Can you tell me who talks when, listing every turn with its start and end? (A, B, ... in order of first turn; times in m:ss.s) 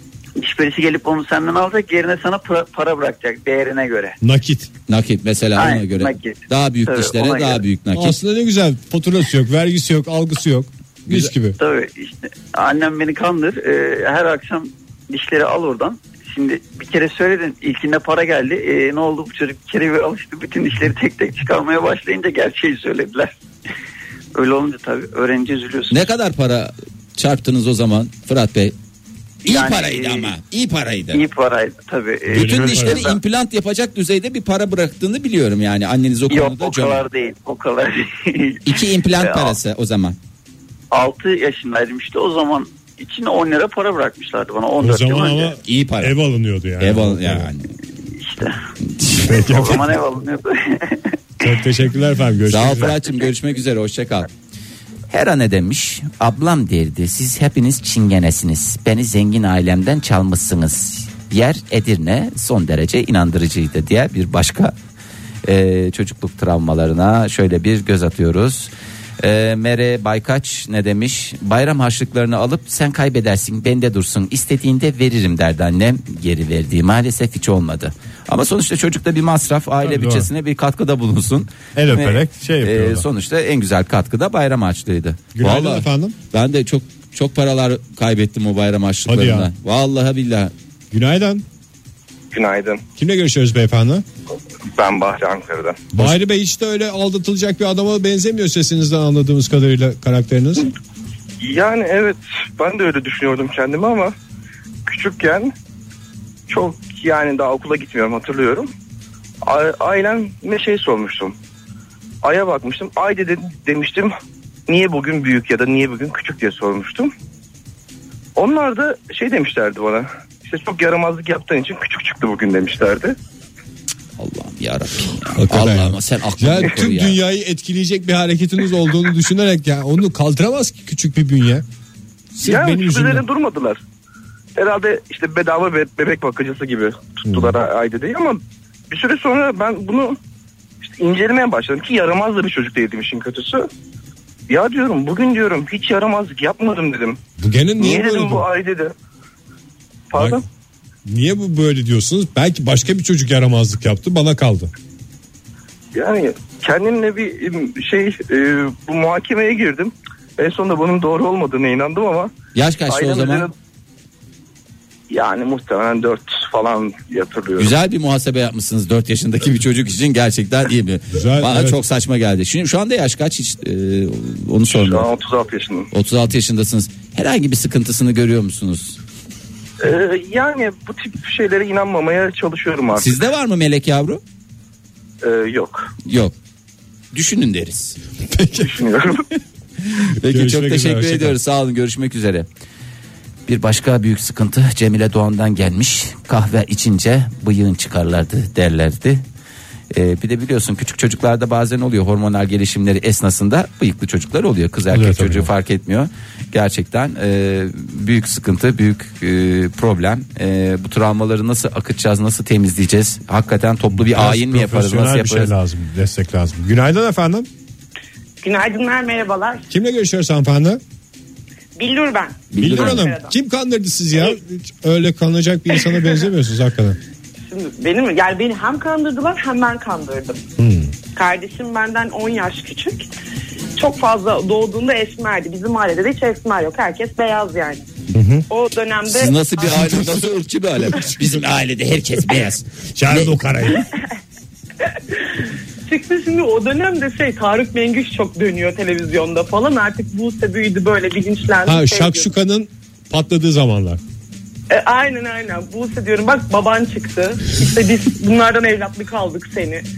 0:00.4-0:04.2 A
0:04.2-0:04.7 B
0:04.9-0:08.2 C
0:05.6-0:07.6 A
0:07.9-0:11.6 B
0:11.6-0:23.3 A
0:24.3-0:26.1 A
0:25.9-0:28.7 C
0:29.4-0:30.3 A
0:29.4-0:31.2 C
0:31.1-0:33.2 A
0:32.3-0:33.1 B
0:32.3-0:37.0 C
0:36.3-0:39.5 A
0:38.6-0:40.2 C
0:40.9-0:45.5 A
0:44.8-0:47.5 B
0:45.6-0:46.1 C
0:46.8-0:47.7 C
0:48.1-0:48.6 A
0:49.0-0:50.0 B
0:49.2-0:51.2 A
0:51.4-0:53.0 B
0:52.5-0:54.3 C
0:55.1-1:04.7 C
1:05.4-1:30.5 C
1:19.8-1:20.3 B
1:21.7-1:23.0 B
1:25.3-1:26.1 B
1:29.1-1:29.5 B
1:30.9-1:31.4 B
1:32.3-1:32.8 D
1:33.0-1:34.0 B
1:34.7-1:35.9 D
1:35.9-1:40.7 B
1:41.4-1:44.1 D
1:44.8-1:45.5 D
1:46.5-1:48.7 D
1:49.4-1:51.4 D
1:52.2-1:54.2 D
1:54.7-1:57.1 D
1:58.4-2:03.2 D
2:04.2-2:07.2 C
2:05.3-2:11.6 B
2:12.3-2:13.2 B
2:12.4-2:13.8 D
2:14.6-2:20.2 D
2:17.3-2:17.5 B
2:20.8-2:23.7 D
2:24.5-2:27.2 D
2:27.4-2:28.4 B
2:27.8-2:28.9 D
2:30.1-2:30.4 D
2:30.1-2:30.4 B
2:31.0-2:34.7 B
2:35.9-2:42.3 D
2:42.5-2:43.5 C
2:42.9-2:43.5 D
2:45.1-2:47.7 D
2:47.6-2:55.1 C
2:51.1-2:51.8 B
2:54.7-2:55.9 D
2:55.9-2:59.0 C
2:59.8-3:03.1 D
3:03.0-3:04.2 C
3:05.2-3:05.9 D
3:06.0-3:06.3 C
3:07.1-3:08.0 C
3:08.3-3:08.8 B
3:08.6-3:09.2 D
3:09.8-3:12.5 C
3:10.2-3:11.4 B
3:13.5-3:19.2 C
3:19.9-3:35.5 C
3:24.9-3:25.5 B
3:33.9-3:37.5 B
3:38.4-3:39.6 E
3:39.7-3:40.8 B
3:41.8-3:43.4 E
3:42.5-3:43.1 C
3:42.6-3:47.0 B
3:47.5-3:50.4 E
3:50.6-3:50.9 B
3:51.1-3:53.1 E
3:53.8-3:57.9 E
3:58.1-3:58.5 B
3:58.5-3:59.4 E
3:59.1-4:03.4 C
3:59.6-4:00.2 B
4:00.9-4:01.4 B
4:02.9-4:03.9 B
4:04.8-4:12.3 E
4:11.6-4:14.0 B
4:14.7-4:19.8 E